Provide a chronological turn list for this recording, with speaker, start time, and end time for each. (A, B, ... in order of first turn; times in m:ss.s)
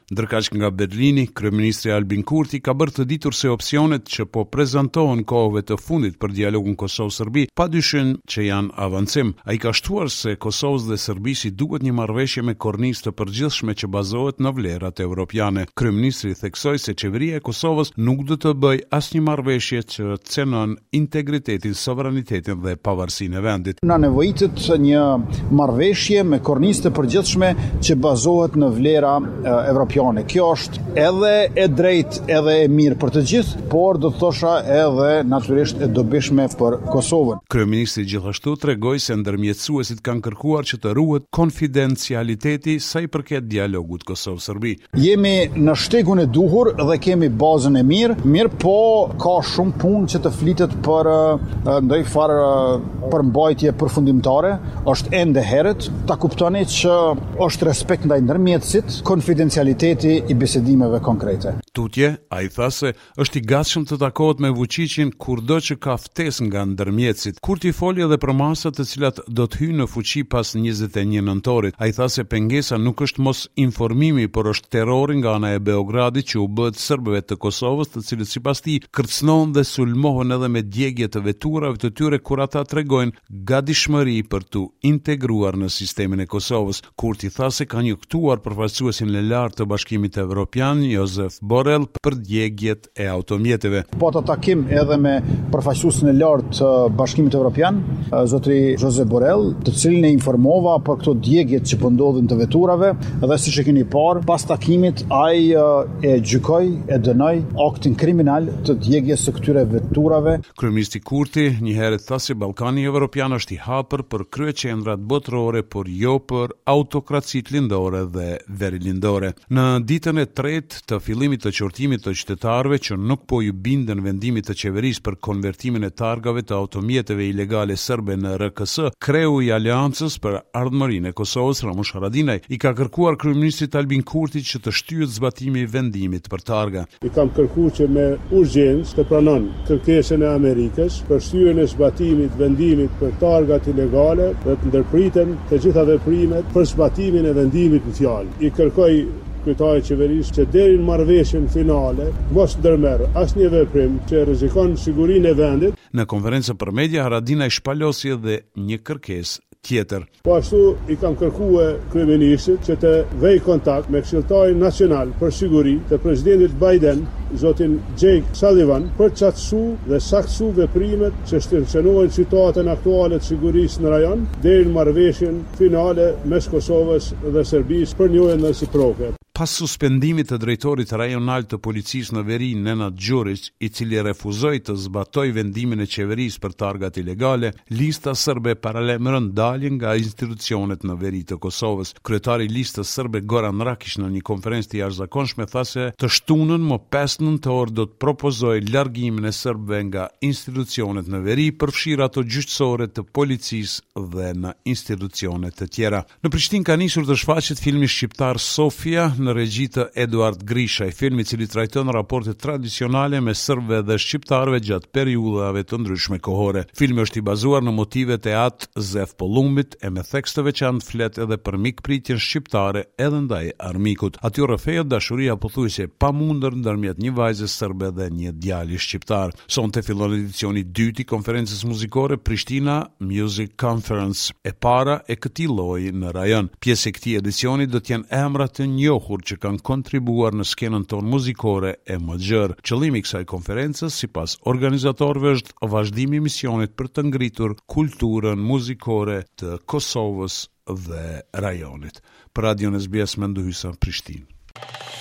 0:00.1-0:23.8 A
0:23.8-0:37.4 B
0:37.5-0:44.8 A
0:45.0-1:01.6 B
1:01.7-1:33.8 A
1:34.0-1:50.4 B
1:50.5-2:16.9 A
2:17.0-2:35.8 C
2:35.9-2:40.1 A
2:40.2-2:59.1 C
2:59.3-4:14.3 A